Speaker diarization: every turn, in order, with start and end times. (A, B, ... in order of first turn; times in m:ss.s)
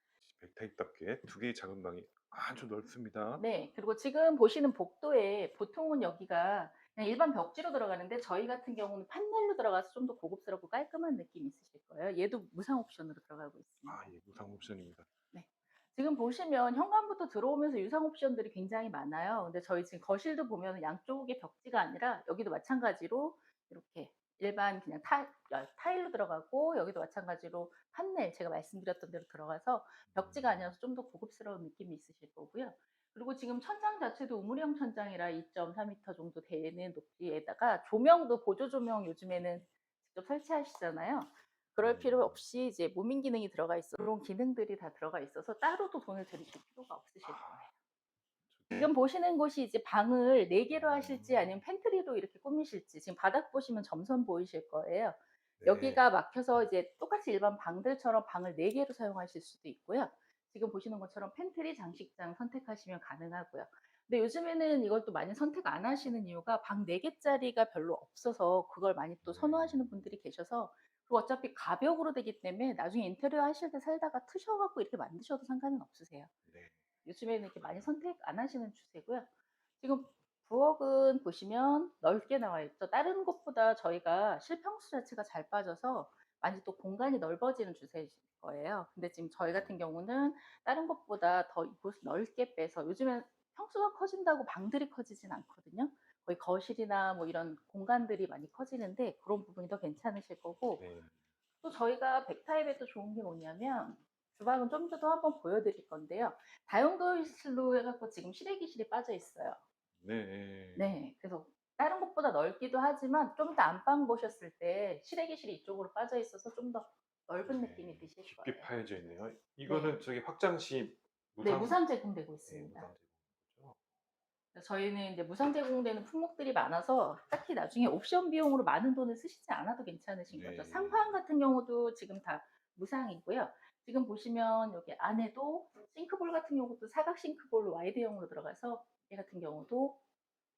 0:00.2-0:03.4 A
0:03.4-0:14.1 B
0:13.9-0:15.1 A
0:15.3-0:47.7 B
0:30.1-0:30.7 A
0:41.8-0:42.4 A
0:47.2-0:47.6 A
0:48.5-0:48.9 A
0:48.7-1:16.3 B
0:50.7-0:51.6 A
0:55.6-0:56.0 A
1:09.2-1:10.1 A
1:16.5-1:16.8 A
1:17.0-1:19.3 B
1:17.6-1:17.9 A
1:19.8-1:40.8 B
1:40.8-1:41.1 A
1:41.6-1:49.6 B
1:50.0-1:51.0 A
1:50.8-1:58.7 B
1:57.4-2:01.8 A
1:59.7-2:00.0 B
2:01.4-2:02.9 B
2:02.5-2:03.8 A
2:04.5-2:20.0 B
2:10.3-2:11.2 A